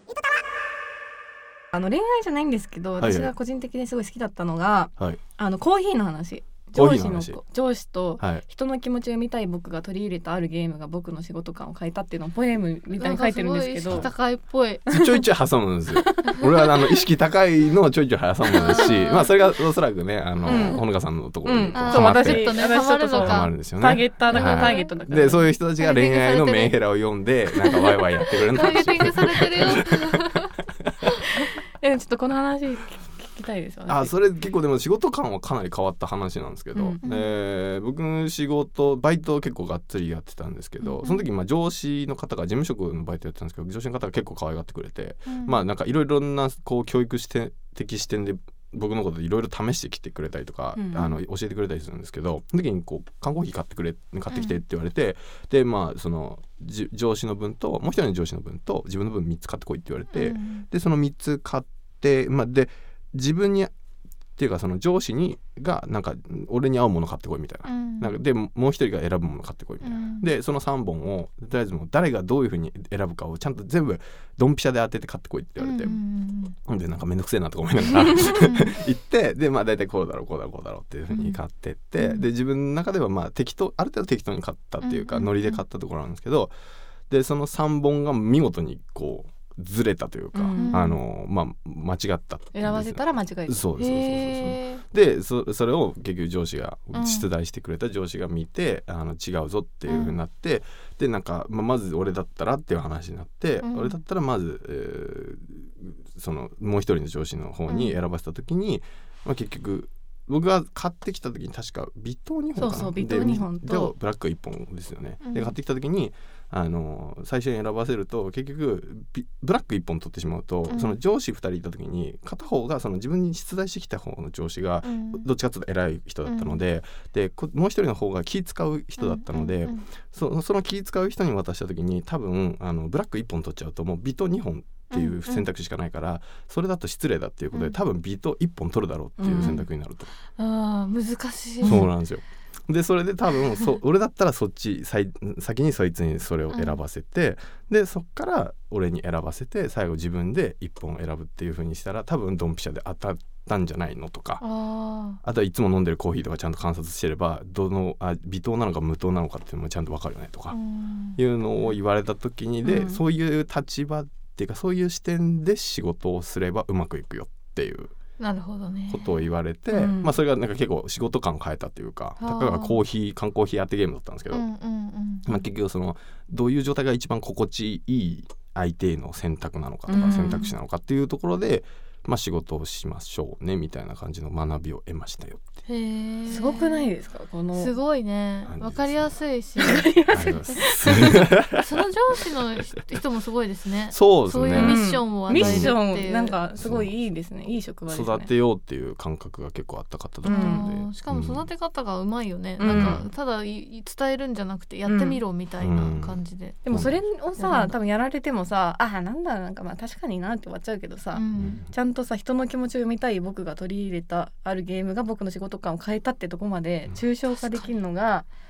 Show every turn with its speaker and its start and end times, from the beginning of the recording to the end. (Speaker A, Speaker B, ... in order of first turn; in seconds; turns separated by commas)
Speaker A: 1.7-14.1, Speaker B: 3.0-3.3, Speaker B: 6.7-7.4, Speaker C: 13.0-14.9, Speaker B: 14.9-30.9, Speaker A: 14.9-15.2, Speaker A: 16.0-16.4, Speaker C: 18.5-19.4, Speaker A: 20.4-20.9, Speaker A: 21.4-25.5, Speaker C: 21.8-23.5, Speaker C: 24.3-24.9, Speaker C: 25.8-26.8, Speaker C: 27.6-30.5, Speaker A: 31.3-34.1, Speaker B: 33.9-63.7, Speaker A: 36.8-37.0, Speaker C: 37.0-37.3, Speaker C: 45.3-45.6, Speaker A: 50.8-51.2, Speaker C: 54.3-54.6, Speaker C: 60.1-60.6, Speaker B: 64.4-76.0, Speaker C: 67.7-68.2, Speaker C: 69.8-70.3, Speaker C: 75.6-76.6, Speaker B: 76.7-86.5, Speaker C: 78.3-78.7, Speaker C: 84.8-85.6, Speaker B: 87.1-140.1, Speaker A: 90.3-90.9, Speaker C: 90.6-90.9, Speaker A: 92.5-93.7, Speaker C: 93.8-94.8, Speaker C: 96.9-97.3, Speaker C: 99.9-100.2, Speaker C: 103.6-104.0, Speaker A: 112.6-113.9, Speaker C: 115.2-115.5, Speaker C: 120.7-121.0, Speaker C: 124.8-125.3, Speaker C: 126.3-126.6, Speaker C: 129.0-129.8, Speaker C: 134.9-135.5, Speaker C: 137.5-137.8, Speaker A: 139.2-139.6, Speaker C: 139.3-139.7, Speaker C: 140.4-141.8, Speaker B: 141.6-154.4, Speaker C: 146.5-146.8, Speaker C: 154.4-155.2, Speaker B: 155.2-160.6, Speaker C: 160.5-161.2, Speaker B: 161.2-167.9, Speaker A: 162.6-163.0, Speaker C: 168.2-169.3, Speaker B: 168.9-174.4, Speaker A: 169.7-170.2, Speaker C: 172.2-172.8, Speaker C: 174.3-175.4, Speaker B: 175.2-185.6, Speaker A: 179.9-180.5, Speaker C: 179.9-180.5, Speaker C: 185.7-186.9, Speaker A: 186.3-187.7, Speaker C: 187.6-190.0, Speaker B: 188.5-189.2, Speaker A: 189.6-191.2, Speaker B: 190.1-191.7, Speaker C: 191.0-196.4, Speaker B: 193.9-195.8, Speaker A: 194.5-198.3, Speaker B: 196.6-196.9, Speaker B: 197.9-201.4, Speaker A: 200.2-200.7, Speaker C: 200.2-206.6, Speaker A: 202.6-203.0, Speaker B: 202.7-203.1, Speaker A: 204.9-205.2, Speaker B: 205.6-206.2, Speaker A: 206.7-218.3, Speaker B: 206.7-207.0, Speaker C: 207.4-207.7, Speaker C: 211.2-211.6, Speaker B: 211.4-211.7